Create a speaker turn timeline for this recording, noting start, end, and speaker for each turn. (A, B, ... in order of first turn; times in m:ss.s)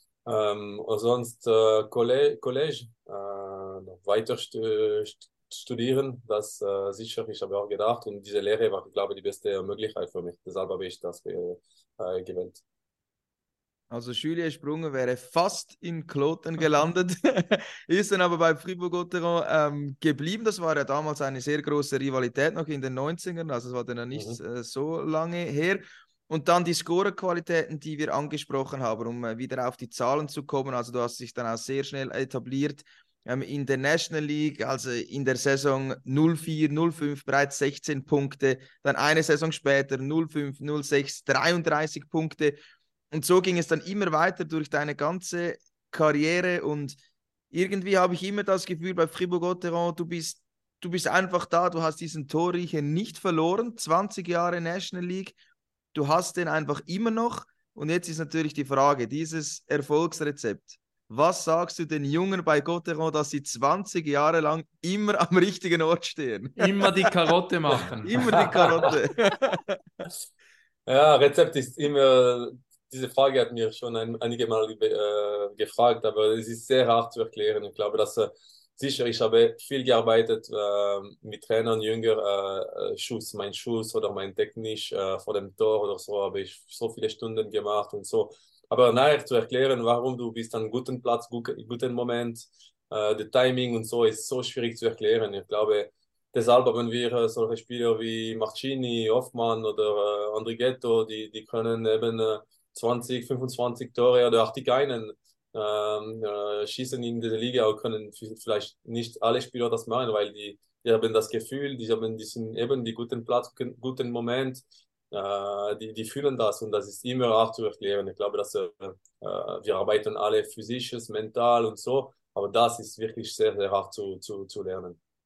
0:00.2-0:12.6 A
0:13.9-0:42.6 B
0:24.1-0:24.4 A
0:43.1-0:47.0 B
0:47.5-0:55.4 B
0:55.9-1:07.0 B
1:06.6-1:08.8 C
1:08.0-1:09.8 B
1:08.3-1:08.9 A
1:10.9-2:05.0 A